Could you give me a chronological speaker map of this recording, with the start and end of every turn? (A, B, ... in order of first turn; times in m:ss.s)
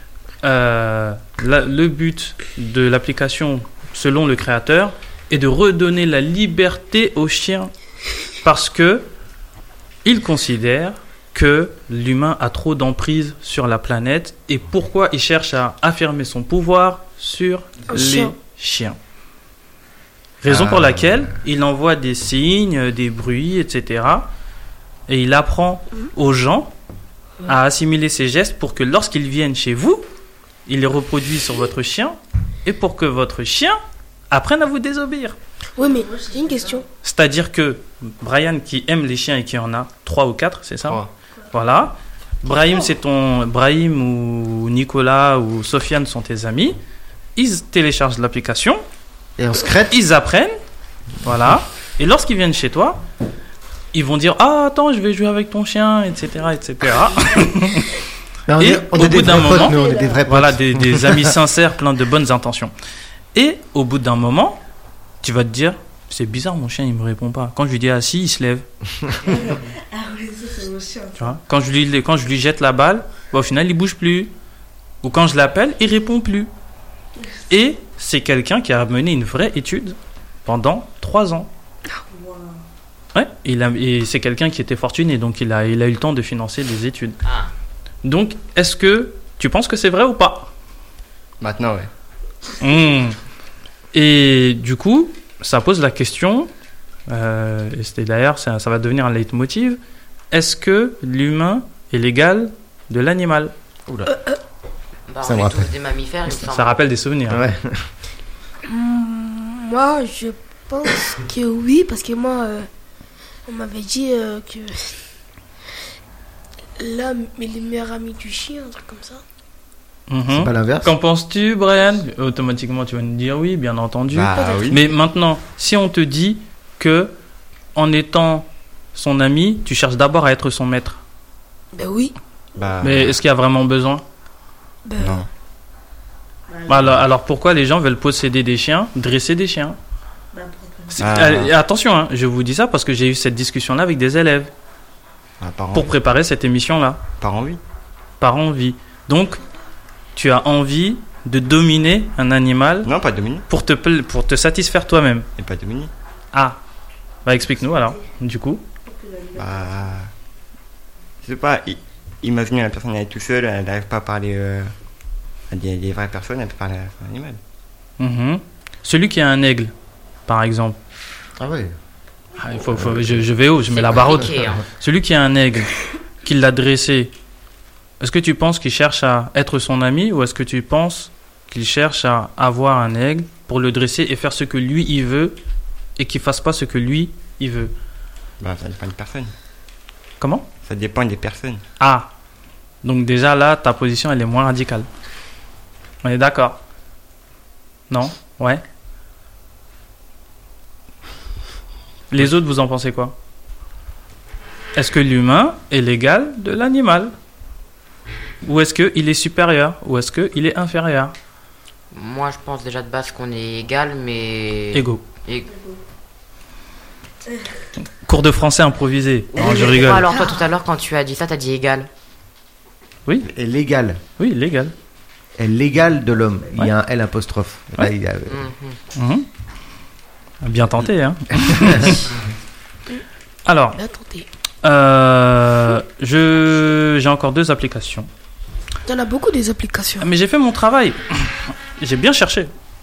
0:00.4-0:07.7 A
0:08.4-0:09.1 A
0:10.0-0:19.0 A
0:17.9-0:18.3 B
0:20.4-0:24.3 A
0:20.4-0:21.3 C
0:25.1-0:26.7 A
0:27.4-0:30.0 A
0:30.6-0:33.8 A
0:34.3-0:35.4 A
0:35.8-0:36.8 B
0:35.8-0:36.8 D
0:37.0-0:41.0 A
0:41.5-0:46.8 A
0:47.4-0:48.8 A
0:49.4-0:49.9 C
0:49.9-0:50.6 A
0:51.2-0:53.0 A
0:53.9-0:57.9 A
0:58.5-1:01.3 C
0:58.6-1:02.7 A
0:59.3-1:00.2 D
1:03.3-1:04.6 A
1:05.2-1:08.6 A
1:09.3-1:11.4 D
1:11.2-1:14.3 A
1:15.0-1:16.5 A
1:17.5-1:21.5 A
1:22.1-1:22.6 D
1:23.1-1:27.2 A
1:27.2-1:27.5 E
1:28.0-1:30.5 A
1:31.4-1:31.9 F
1:32.6-1:33.2 A
1:33.9-1:36.5 A
1:37.1-1:39.8 A
1:40.3-1:43.5 A
1:43.9-1:44.1 C
1:44.1-1:44.4 B
1:45.1-1:46.8 E
1:45.2-1:45.7 C
1:46.4-1:47.4 A
1:47.3-1:47.9 C
1:48.7-1:52.7 B
1:53.5-1:55.0 B
1:56.8-1:59.2 B
2:00.1-2:07.1 A
2:00.3-2:00.9 C
2:04.1-2:04.8 F
2:04.2-2:04.6 C
2:04.4-2:04.6 B
2:07.7-2:11.0 A
2:11.7-2:12.1 B
2:12.6-2:13.2 F
2:12.8-2:14.0 A
2:14.8-2:15.2 B
2:15.0-2:15.3 F
2:16.5-2:16.9 D
2:16.7-2:19.8 A
2:20.3-2:21.2 D
2:20.9-2:24.5 A
2:21.0-2:21.5 F
2:25.4-2:25.9 F
2:25.7-2:27.0 A
2:27.2-2:27.6 F
2:28.2-2:29.4 A
2:30.2-2:32.9 A
2:32.8-2:33.4 F
2:33.5-2:35.3 A
2:35.4-2:35.9 F
2:36.3-2:36.6 A
2:37.2-2:38.6 A
2:38.8-2:39.7 D
2:39.4-2:40.1 F
2:41.2-2:44.7 F
2:45.5-2:47.4 F
2:48.0-2:49.7 A
2:50.3-2:50.8 A
2:51.4-2:51.7 C
2:52.4-2:57.1 A
2:53.7-2:54.6 E
2:58.0-3:05.4 A
3:06.0-3:07.7 A
3:08.4-3:09.3 F
3:10.2-3:10.4 A
3:10.6-3:11.6 F
3:11.8-3:12.1 A
3:12.8-3:14.9 A
3:16.0-3:16.6 A
3:17.9-3:18.6 A
3:22.1-3:23.1 A
3:24.7-3:27.1 A
3:28.4-3:31.1 A
3:31.9-3:35.5 E
3:34.7-3:35.0 A
3:35.5-3:35.8 D
3:37.3-3:37.6 D
3:37.9-3:40.0 A
3:39.3-3:41.9 E
3:43.2-3:44.0 C
3:44.2-3:44.7 A
3:45.4-3:48.4 C
3:48.3-3:48.8 E
3:48.9-3:49.2 A
3:50.4-3:52.1 A
3:51.4-3:51.9 C
3:53.4-3:53.8 A
3:53.7-3:54.3 B
3:54.6-3:58.1 A
3:58.8-4:00.1 B
4:00.0-4:02.5 A